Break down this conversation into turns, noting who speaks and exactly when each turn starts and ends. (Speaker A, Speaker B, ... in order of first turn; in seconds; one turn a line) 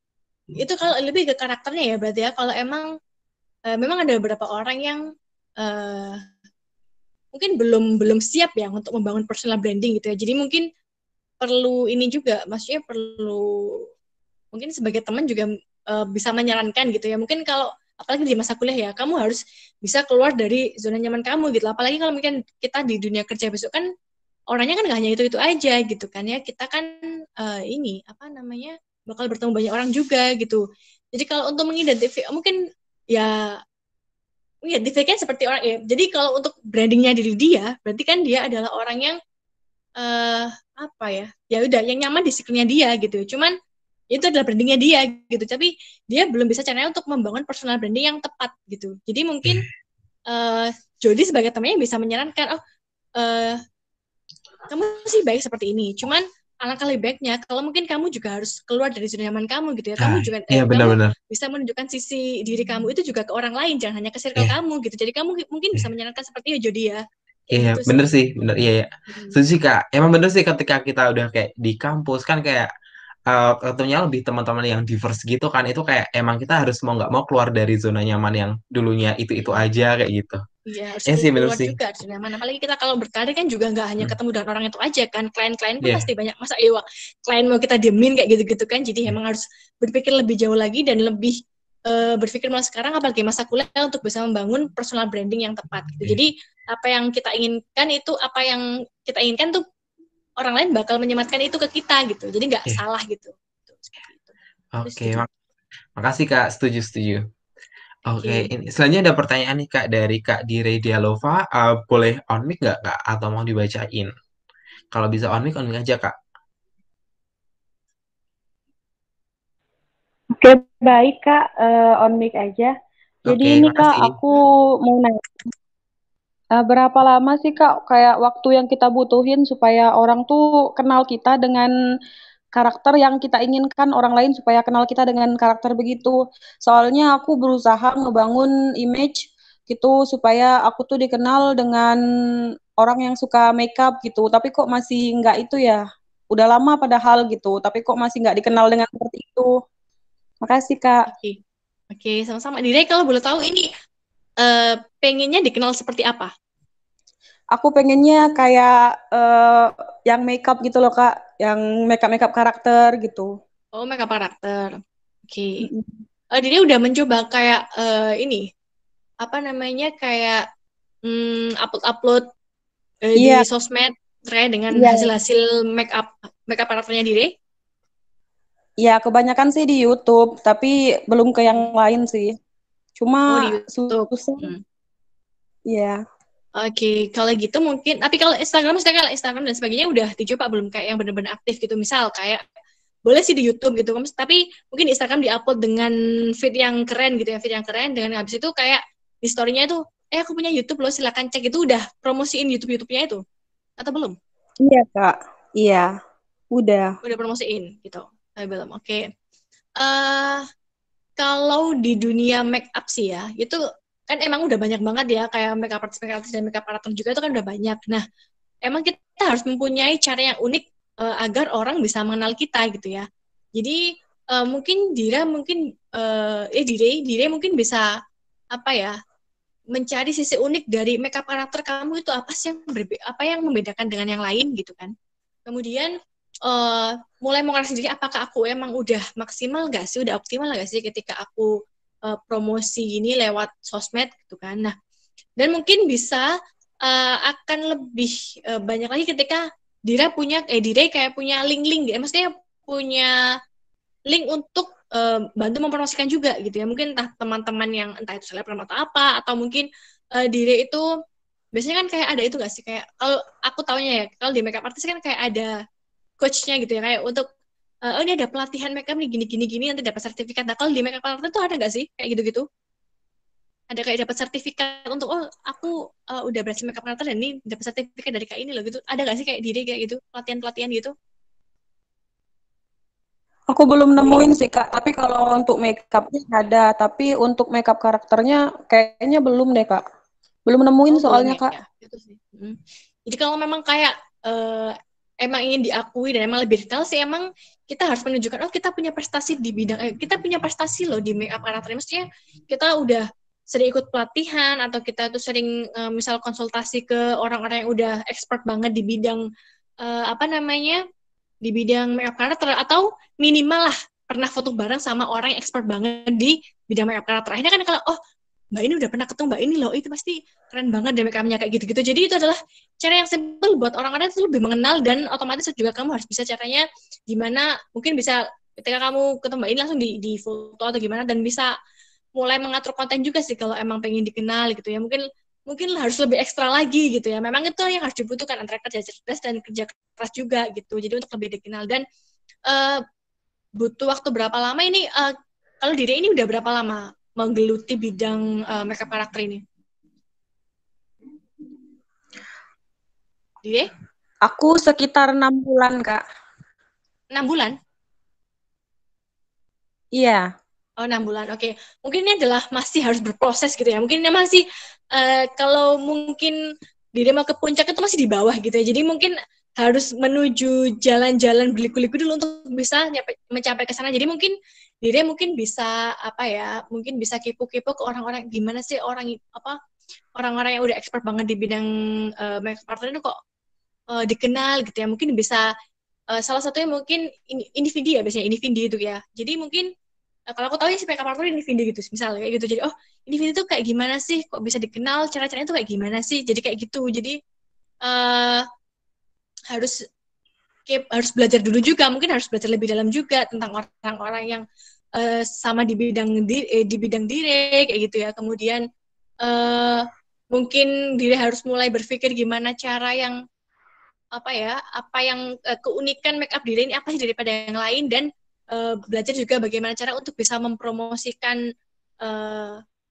Speaker A: 0.5-2.9
Speaker A: 3.7-5.0
Speaker A: 5.6-6.2
Speaker A: 7.3-10.7
Speaker A: 11.4-13.8
Speaker A: 14.5-23.9
Speaker A: 24.5-30.6
Speaker A: 31.1-32.6
Speaker A: 33.1-33.6
Speaker A: 34.6-39.2
Speaker A: 40.0-43.5
Speaker A: 44.1-49.6
Speaker A: 50.3-52.6
Speaker A: 53.2-53.6
Speaker A: 54.7-68.0
Speaker B: 60.0-61.1
Speaker B: 67.5-72.7
Speaker A: 69.1-69.3
Speaker B: 73.3-80.4
Speaker A: 80.7-99.6
Speaker B: 81.1-81.7
Speaker B: 85.8-86.1
Speaker A: 100.4-104.3
Speaker B: 104.8-105.3
Speaker A: 104.8-105.3
Speaker B: 106.0-107.2
Speaker B: 108.1-114.1
Speaker A: 108.2-108.5
Speaker B: 114.9-116.1
Speaker C: 120.4-122.7
Speaker B: 123.3-124.2
Speaker C: 123.3-125.5
Speaker C: 126.6-131.7
Speaker C: 132.6-142.0
Speaker C: 142.8-149.5
Speaker C: 150.4-151.0
Speaker A: 151.1-151.4
Speaker A: 151.9-153.7
Speaker A: 154.4-156.3
Speaker C: 157.5-163.3
Speaker A: 163.8-165.7
Speaker C: 165.6-166.0
Speaker A: 166.3-168.5
Speaker A: 169.2-170.4
Speaker A: 171.1-172.2
Speaker A: 173.0-177.3
Speaker C: 173.2-173.4
Speaker C: 174.7-175.1
Speaker C: 178.8-182.3
Speaker C: 183.0-184.5
Speaker A: 183.3-184.6
Speaker C: 185.7-186.0
Speaker A: 186.6-192.4
Speaker A: 193.1-203.2
Speaker A: 203.8-204.2
Speaker C: 204.6-205.9
Speaker C: 206.5-206.9
Speaker A: 207.0-209.0
Speaker A: 209.8-210.4
Speaker A: 211.2-218.0
Speaker A: 218.7-223.8
Speaker A: 224.3-227.9
Speaker A: 228.5-228.9
Speaker A: 229.7-234.9
Speaker A: 235.5-235.9
Speaker A: 236.4-241.5
Speaker A: 242.1-244.7
Speaker A: 245.4-246.3
Speaker A: 246.8-253.1
Speaker A: 254.1-260.9
Speaker A: 261.5-265.5
Speaker A: 266.2-267.2
Speaker A: 267.9-272.4
Speaker A: 273.7-280.9
Speaker C: 283.5-289.8
Speaker C: 290.5-291.5
Speaker A: 290.9-309.2
Speaker A: 309.8-310.8
Speaker A: 311.4-318.0
Speaker A: 318.5-331.5
Speaker A: 332.2-341.8
Speaker A: 342.5-342.8
Speaker A: 343.6-349.4
Speaker C: 354.3-356.0
Speaker A: 357.1-357.5
Speaker C: 360.0-360.2
Speaker A: 360.8-366.4
Speaker A: 366.9-379.6
Speaker A: 380.1-381.7
Speaker A: 382.2-383.2
Speaker A: 383.9-385.5
Speaker A: 386.1-389.7
Speaker A: 390.3-397.2
Speaker A: 397.8-398.4
Speaker A: 399.5-399.8
Speaker A: 400.7-404.4
Speaker A: 404.9-408.6
Speaker A: 409.2-413.1
Speaker A: 414.1-421.4
Speaker A: 422.0-422.6